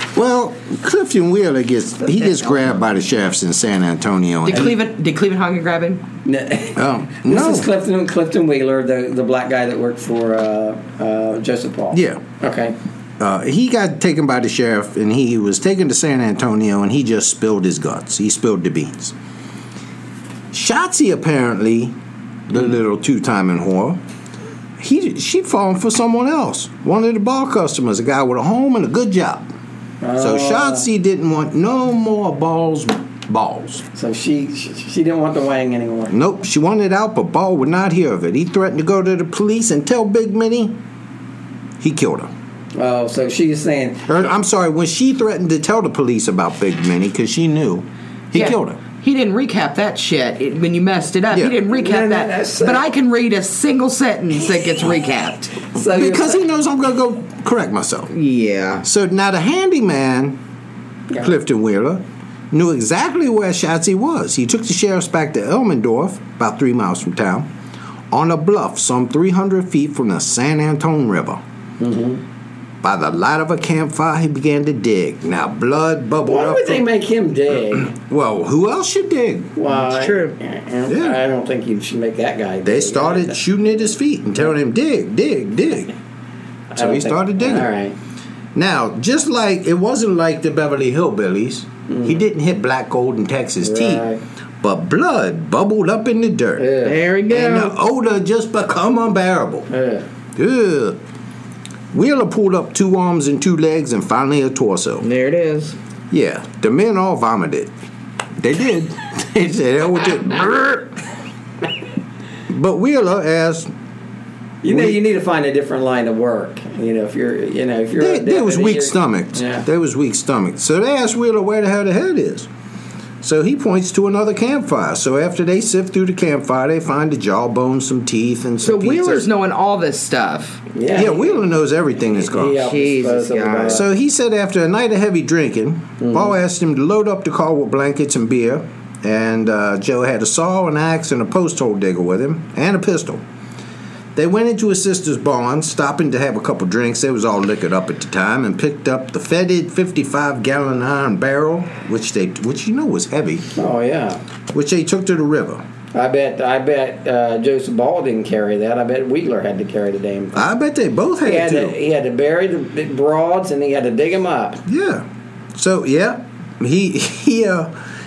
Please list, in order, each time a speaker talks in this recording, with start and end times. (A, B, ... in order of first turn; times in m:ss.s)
0:00.1-0:04.8 A
0:04.4-0:06.1 B
0:06.2-0:12.8 C
0:06.7-0:07.7 A
0:11.9-0:12.2 A
0:13.2-0:19.1 A
0:20.5-0:22.0 A
0:22.5-0:24.0 A
0:24.8-0:29.5 A
0:30.0-0:30.9 C
0:30.2-0:33.8 A
0:34.0-0:36.1 C
0:36.1-0:40.8 A
0:41.8-0:42.3 A
0:42.7-0:44.1 C
0:44.1-0:48.8 A
0:48.3-0:55.7 B
0:51.3-0:51.6 A
0:51.7-0:52.9 C
0:55.7-0:56.4 C
0:55.9-0:58.1 A
0:58.1-0:58.8 B
0:58.8-1:00.4 A
1:01.2-1:07.5 A
1:08.1-1:11.4 A
1:11.8-1:12.2 C
1:12.8-1:16.9 A
1:16.2-1:17.9 C
1:17.9-1:19.6 A
1:19.6-1:23.4 C
1:19.8-1:20.4 B
1:20.9-1:21.2 A
1:22.6-1:25.9 A
1:26.7-1:28.0 C
1:26.8-1:27.7 A
1:28.6-1:34.1 A
1:31.9-1:32.2 C
1:33.6-1:34.2 C
1:34.6-1:39.7 A
1:36.6-1:37.0 C
1:36.8-1:37.8 B
1:39.7-1:40.0 C
1:40.4-1:41.0 A
1:41.9-1:45.0 A
1:45.0-1:45.8 B
1:46.1-1:47.7 A
1:48.4-1:51.0 A
1:52.5-1:53.7 A
1:54.6-1:59.7 C
1:54.7-1:55.0 A
1:58.0-2:02.5 A
2:03.2-2:09.3 A
2:08.6-2:10.7 B
2:10.7-2:11.3 C
2:10.9-2:12.7 A
2:12.3-2:13.8 C
2:12.6-2:13.8 B
2:13.7-2:23.2 A
2:16.0-2:16.4 C
2:24.1-2:33.6 A
2:33.6-2:34.2 C
2:34.5-2:35.6 A
2:35.9-2:40.5 C
2:40.3-2:41.8 A
2:41.2-2:44.6 C
2:44.7-2:47.7 A